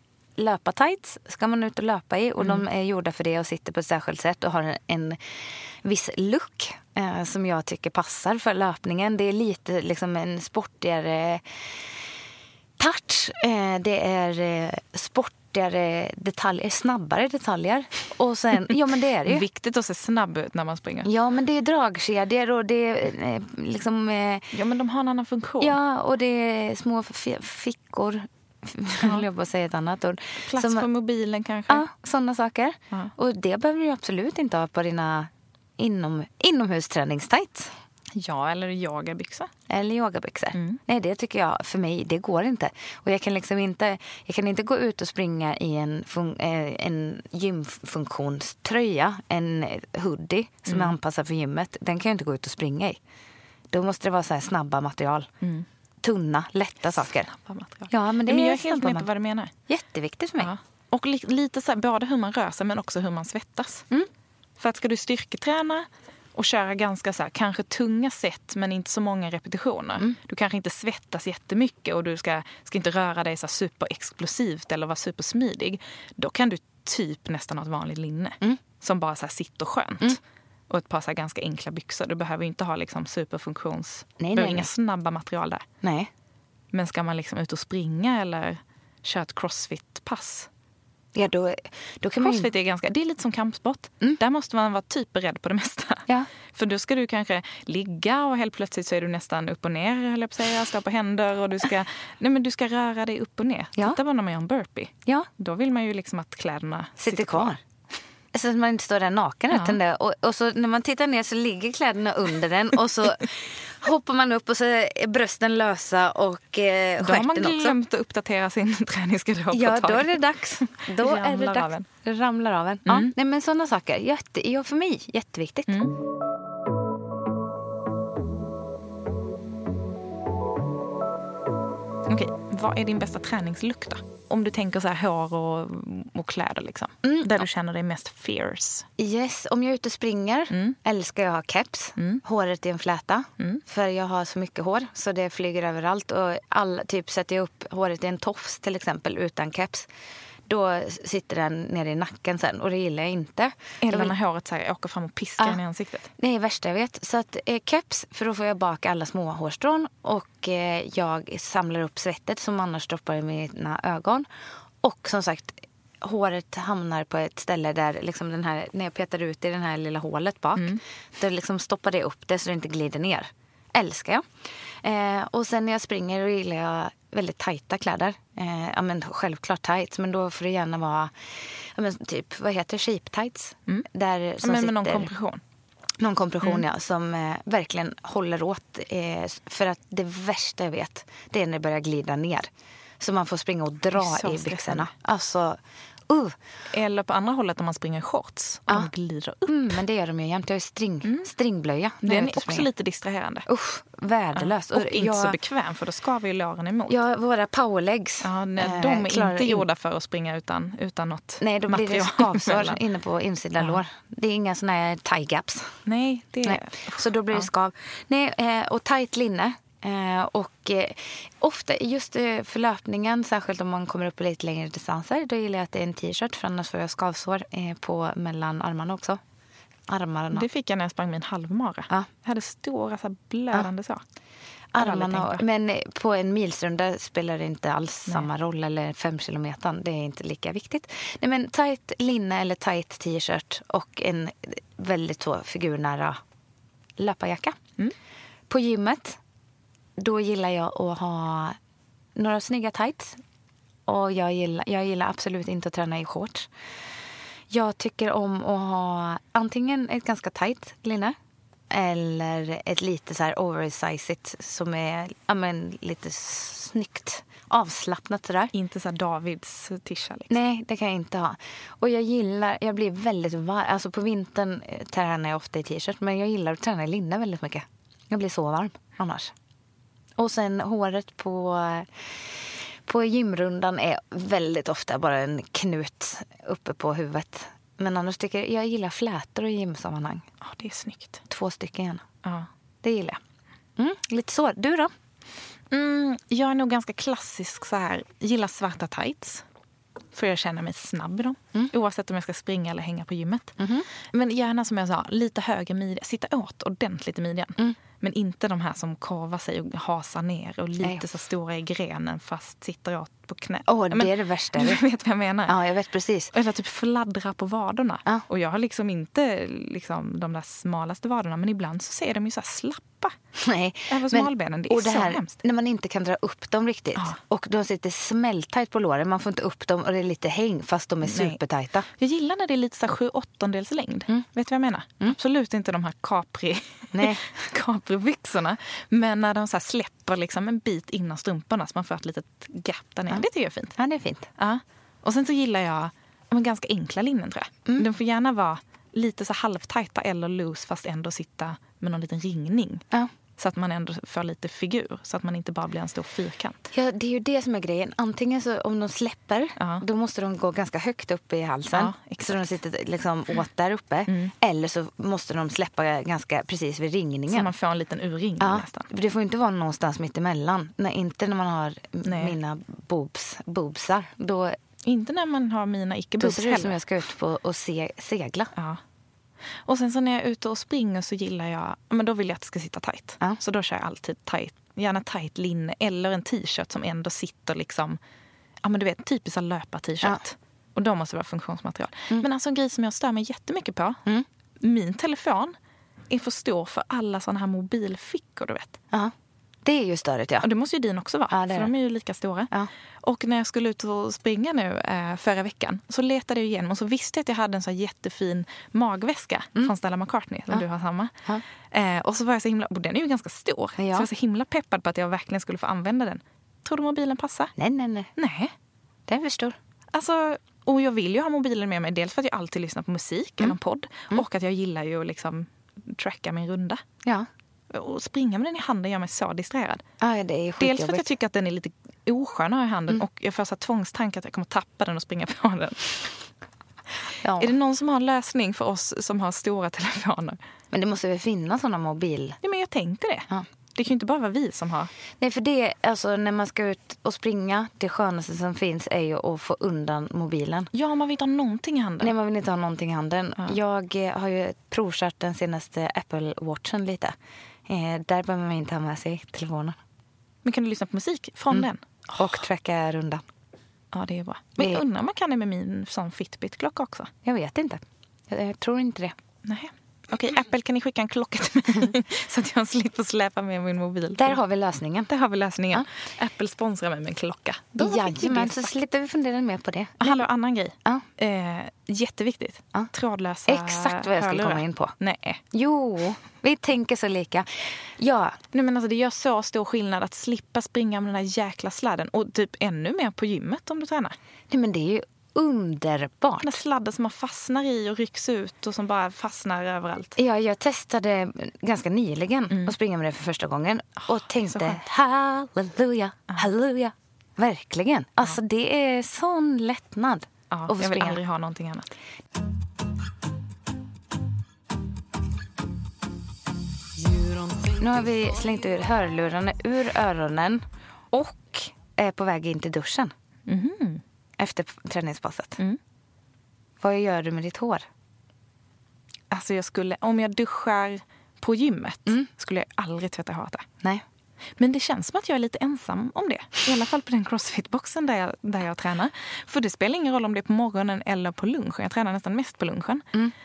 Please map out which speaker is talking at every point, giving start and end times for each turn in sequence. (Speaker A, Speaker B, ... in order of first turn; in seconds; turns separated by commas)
Speaker A: 0.4-5.2, Speaker A: 5.8-11.4, Speaker A: 12.8-19.4, Speaker B: 19.2-21.1, Speaker A: 21.0-24.5, Speaker B: 24.5-25.8, Speaker A: 25.6-30.9, Speaker B: 30.5-31.8, Speaker A: 31.7-37.7, Speaker B: 38.1-39.5, Speaker A: 39.7-53.0, Speaker B: 40.5-40.8, Speaker B: 50.7-50.9, Speaker A: 53.7-55.3, Speaker A: 56.0-57.3, Speaker B: 57.3-59.5, Speaker A: 57.9-59.1, Speaker A: 59.7-60.5, Speaker B: 60.4-63.9, Speaker B: 64.6-85.6, Speaker A: 84.2-84.7, Speaker A: 85.8-86.1, Speaker B: 86.7-90.5, Speaker A: 91.1-92.5, Speaker B: 92.2-107.6, Speaker A: 107.0-107.6, Speaker A: 108.3-117.8, Speaker B: 109.5-109.8, Speaker B: 117.0-120.2, Speaker A: 119.5-125.8, Speaker B: 120.7-121.9, Speaker B: 122.8-123.1, Speaker B: 125.7-125.9, Speaker B: 132.1-138.9, Speaker A: 137.0-137.4, Speaker A: 139.0-149.9, Speaker B: 140.5-140.8, Speaker B: 142.0-142.2, Speaker A: 150.5-154.1, Speaker B: 153.8-156.1, Speaker A: 156.2-164.3, Speaker A: 164.8-174.3, Speaker A: 174.8-185.1, Speaker B: 184.4-185.4, Speaker A: 186.0-196.3, Speaker B: 193.9-194.9, Speaker B: 196.7-199.6, Speaker A: 199.4-202.7, Speaker B: 202.0-203.5, Speaker A: 203.5-205.4, Speaker B: 204.3-207.0, Speaker A: 206.9-209.7, Speaker B: 208.2-212.8, Speaker A: 211.4-215.8, Speaker B: 215.8-217.5, Speaker A: 216.4-229.2, Speaker A: 229.9-230.4, Speaker B: 230.3-234.0, Speaker A: 234.7-246.2, Speaker B: 234.8-235.4, Speaker A: 247.0-247.6, Speaker A: 248.5-249.2, Speaker A: 250.0-251.6, Speaker A: 252.2-253.2, Speaker A: 253.8-256.5, Speaker A: 257.5-261.1, Speaker A: 261.7-268.5, Speaker B: 268.5-270.4, Speaker A: 270.3-279.3, Speaker A: 280.2-290.2, Speaker B: 290.4-291.2, Speaker A: 291.3-292.0, Speaker A: 292.8-293.2, Speaker A: 293.8-294.9, Speaker B: 295.7-299.4, Speaker B: 300.1-303.6, Speaker A: 303.6-303.9, Speaker B: 304.1-315.6, Speaker A: 313.7-314.8, Speaker A: 315.5-316.3, Speaker B: 316.3-323.1, Speaker A: 323.4-331.9, Speaker B: 323.9-325.4, Speaker B: 331.0-331.4, Speaker B: 332.0-343.8, Speaker A: 336.9-337.4, Speaker A: 343.8-344.3, Speaker B: 344.4-352.8, Speaker B: 353.4-356.7, Speaker A: 356.7-367.5, Speaker B: 359.6-359.8, Speaker B: 361.7-362.5, Speaker B: 367.3-368.9, Speaker A: 368.4-374.6, Speaker B: 372.0-372.4, Speaker B: 374.8-376.8, Speaker A: 376.2-378.5, Speaker B: 379.6-388.0, Speaker B: 388.6-394.0, Speaker B: 394.6-395.5, Speaker B: 396.1-398.8, Speaker A: 399.6-400.5, Speaker B: 400.4-402.5, Speaker A: 401.3-401.7, Speaker B: 403.0-411.1, Speaker B: 411.7-417.5, Speaker A: 413.8-414.1, Speaker A: 417.6-418.1, Speaker B: 418.2-418.5, Speaker A: 419.1-419.6, Speaker B: 419.9-426.8, Speaker B: 427.7-429.8, Speaker A: 430.0-431.1, Speaker B: 430.6-436.1, Speaker A: 437.2-437.5, Speaker B: 437.4-440.4, Speaker A: 440.7-442.4, Speaker B: 442.4-444.9, Speaker A: 445.2-450.7, Speaker B: 450.7-452.1, Speaker A: 452.0-457.1, Speaker A: 457.7-459.8, Speaker B: 460.4-462.3, Speaker A: 461.5-463.2, Speaker B: 463.9-467.1, Speaker A: 464.6-464.8, Speaker A: 467.2-469.1, Speaker B: 469.4-474.4, Speaker A: 474.2-475.1, Speaker B: 475.1-478.7, Speaker A: 477.8-480.2, Speaker B: 480.0-485.4, Speaker A: 483.5-484.9, Speaker A: 485.5-488.4, Speaker B: 488.5-494.1, Speaker A: 494.5-496.6, Speaker B: 496.4-500.1, Speaker A: 500.2-511.2, Speaker B: 504.1-504.8, Speaker B: 510.5-511.9, Speaker A: 517.6-523.1, Speaker B: 523.5-524.0, Speaker A: 524.4-525.6, Speaker A: 526.8-527.9, Speaker B: 529.3-533.6, Speaker B: 534.6-543.0